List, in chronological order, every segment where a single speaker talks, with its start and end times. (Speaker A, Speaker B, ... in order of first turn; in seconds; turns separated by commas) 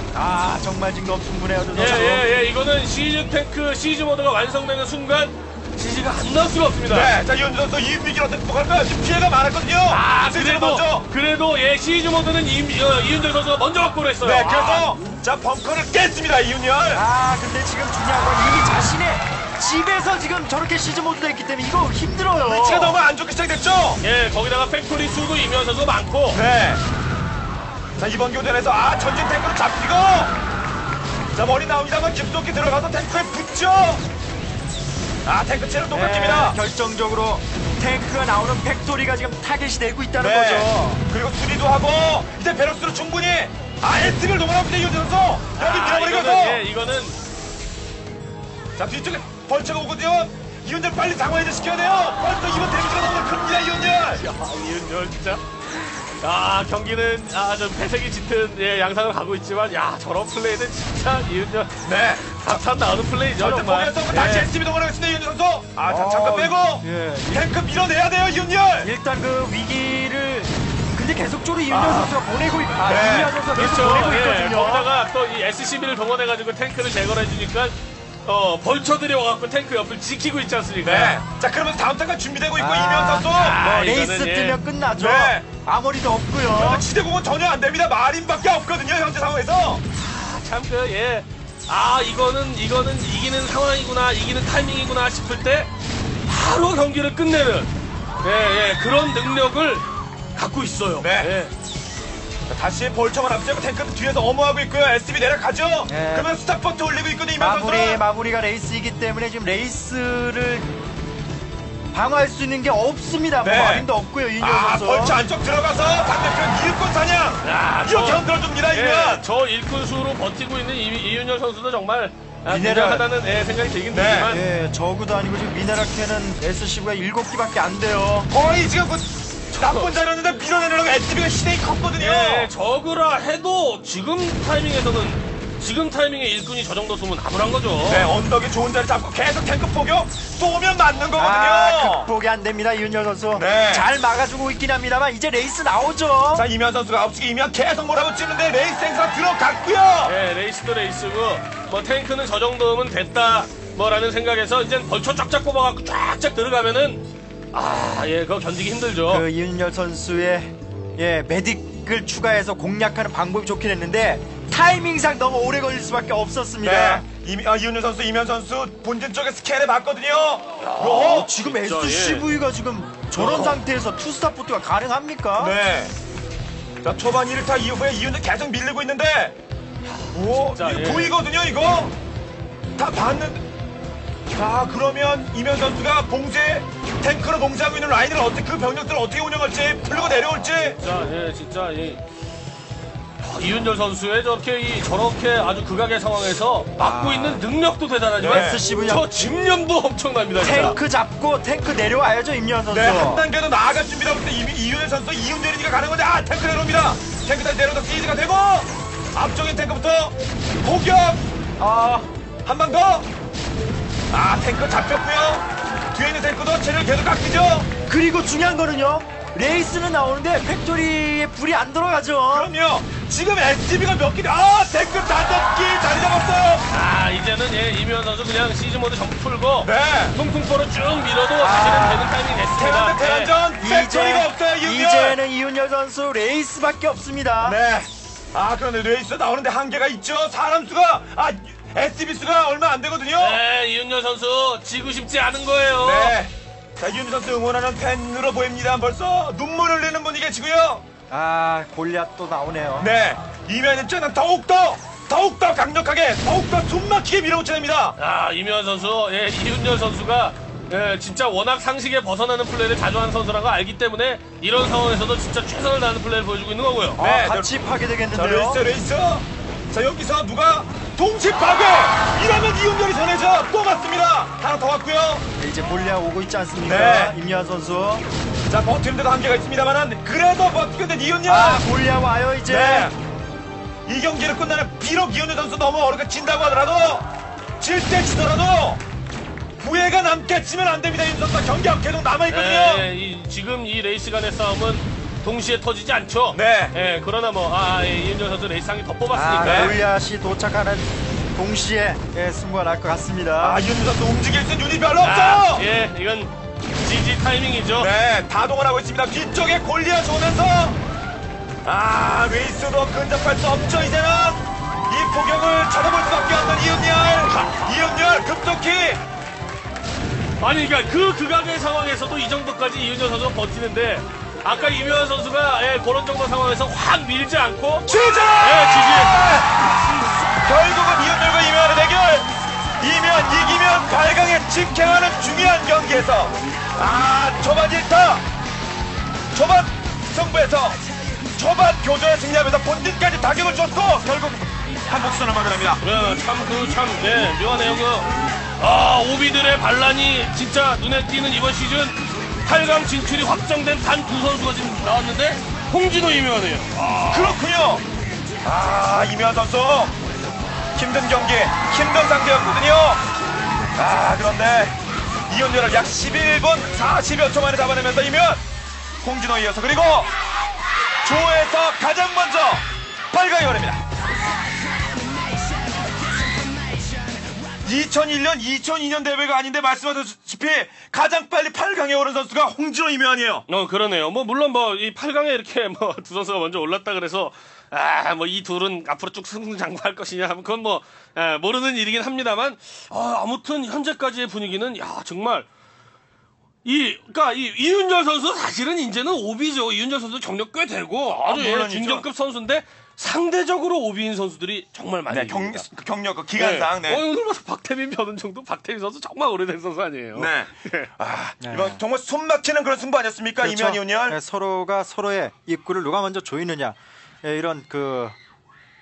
Speaker A: 0.1-2.3, Speaker B: 1.8-7.1, Speaker C: 6.9-11.1, Speaker B: 9.9-14.9, Speaker C: 14.2-17.0, Speaker A: 16.9-23.0, Speaker C: 22.4-24.0, Speaker B: 24.0-26.4, Speaker C: 26.3-26.8, Speaker C: 28.0-30.3, Speaker C: 31.3-34.0, Speaker C: 35.2-36.6, Speaker A: 35.9-41.0, Speaker C: 40.2-46.6, Speaker B: 45.5-47.2, Speaker C: 48.8-54.2, Speaker B: 54.1-64.5, Speaker C: 61.8-62.2, Speaker C: 63.4-68.9, Speaker A: 65.8-67.5, Speaker A: 68.8-74.9, Speaker C: 71.7-72.1, Speaker C: 72.8-73.3, Speaker B: 73.5-81.2, Speaker C: 80.8-83.6, Speaker A: 82.5-86.8, Speaker B: 83.3-84.6, Speaker C: 85.0-85.5, Speaker C: 86.5-89.8, Speaker B: 90.0-95.7, Speaker B: 96.3-97.7, Speaker B: 98.2-101.5, Speaker C: 101.0-101.3, Speaker C: 102.5-108.0, Speaker A: 105.9-106.3, Speaker A: 107.4-110.8, Speaker A: 111.9-115.2, Speaker C: 113.4-113.9, Speaker C: 114.4-119.2, Speaker B: 117.4-124.4, Speaker A: 122.5-123.1, Speaker C: 123.9-124.3, Speaker A: 124.3-128.3, Speaker C: 128.3-132.5, Speaker B: 129.5-130.3, Speaker B: 132.0-138.1, Speaker C: 137.8-142.1, Speaker A: 141.2-146.5, Speaker C: 143.3-143.9, Speaker C: 146.3-150.1, Speaker B: 150.0-159.2, Speaker A: 159.1-167.0, Speaker C: 166.6-171.3, Speaker B: 170.6-172.3, Speaker A: 170.9-175.6, Speaker B: 173.1-173.6, Speaker C: 175.4-175.9, Speaker C: 176.8-179.3, Speaker B: 179.8-181.2, Speaker C: 180.1-181.9, Speaker C: 182.8-183.4, Speaker C: 184.3-190.8, Speaker B: 190.8-192.0, Speaker B: 193.2-200.8, Speaker A: 196.8-197.4, Speaker C: 198.2-198.6, Speaker A: 198.2-199.3, Speaker A: 200.4-203.2, Speaker C: 202.7-211.2, Speaker A: 211.6-212.1, Speaker C: 212.4-213.1, Speaker C: 214.1-217.7, Speaker A: 217.9-222.5, Speaker C: 222.3-226.6, Speaker B: 226.7-233.3, Speaker C: 229.6-230.2, Speaker A: 231.4-232.2, Speaker C: 232.6-235.2, Speaker A: 233.6-237.6, Speaker C: 237.4-243.4, Speaker B: 243.2-246.2, Speaker C: 245.8-250.8, Speaker A: 251.1-252.9, Speaker C: 252.8-257.9, Speaker B: 258.0-267.0, Speaker C: 267.0-267.6, Speaker A: 267.0-268.6, Speaker C: 268.1-275.2, Speaker A: 275.4-278.1, Speaker C: 276.6-277.1, Speaker C: 278.5-281.6, Speaker A: 281.2-282.9, Speaker C: 282.5-283.0, Speaker C: 283.9-287.1, Speaker C: 287.6-288.8, Speaker C: 289.6-292.9, Speaker B: 292.3-299.8, Speaker C: 296.3-296.7, Speaker A: 299.1-303.6, Speaker C: 299.4-299.8, Speaker C: 303.4-305.6, Speaker B: 305.0-307.9, Speaker C: 307.8-310.8, Speaker C: 311.6-319.0, Speaker B: 317.3-317.7, Speaker B: 320.4-329.2, Speaker C: 327.9-329.5, Speaker C: 330.4-338.2, Speaker C: 339.3-340.8, Speaker C: 341.3-345.8, Speaker B: 345.8-357.3, Speaker C: 357.1-357.8, Speaker C: 358.4-360.0, Speaker C: 360.7-363.0, Speaker C: 363.8-368.4, Speaker C: 369.0-370.1, Speaker C: 371.0-373.8, Speaker C: 377.6-383.4, Speaker B: 383.5-395.5, Speaker B: 396.6-405.7, Speaker C: 401.1-402.1, Speaker C: 405.1-407.0, Speaker B: 406.4-410.9, Speaker C: 410.1-414.2, Speaker A: 411.4-411.8, Speaker A: 413.4-418.2